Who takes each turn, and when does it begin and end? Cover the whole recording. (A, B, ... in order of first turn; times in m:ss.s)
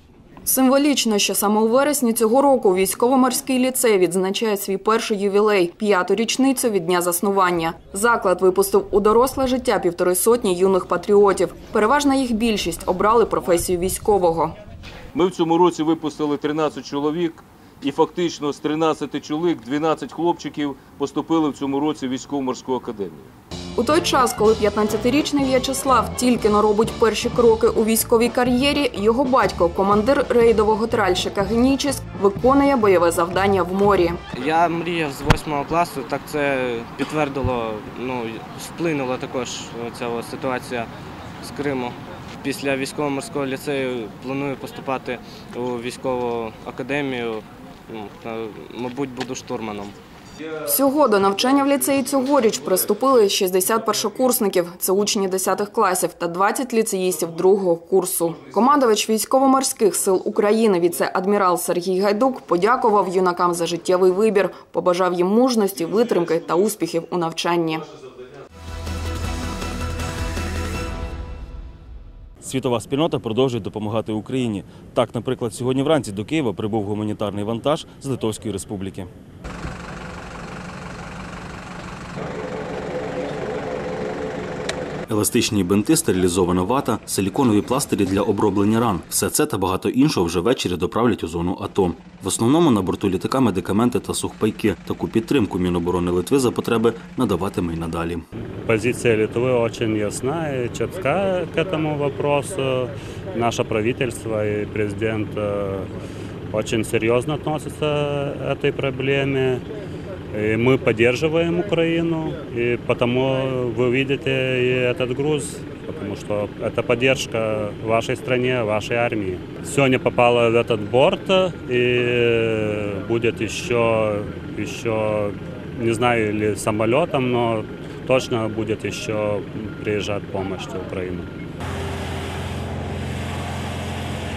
0:00.4-0:14.6 A
0:15.2-0:23.3 B
0:23.8-0:34.2 A
0:34.3-0:40.9 C
0:41.4-0:50.0 C
0:50.7-1:07.9 A
1:12.4-1:19.1 D
1:25.1-1:38.3 D
1:38.4-1:45.9 E
1:46.5-1:49.6 E
1:50.3-2:11.3 E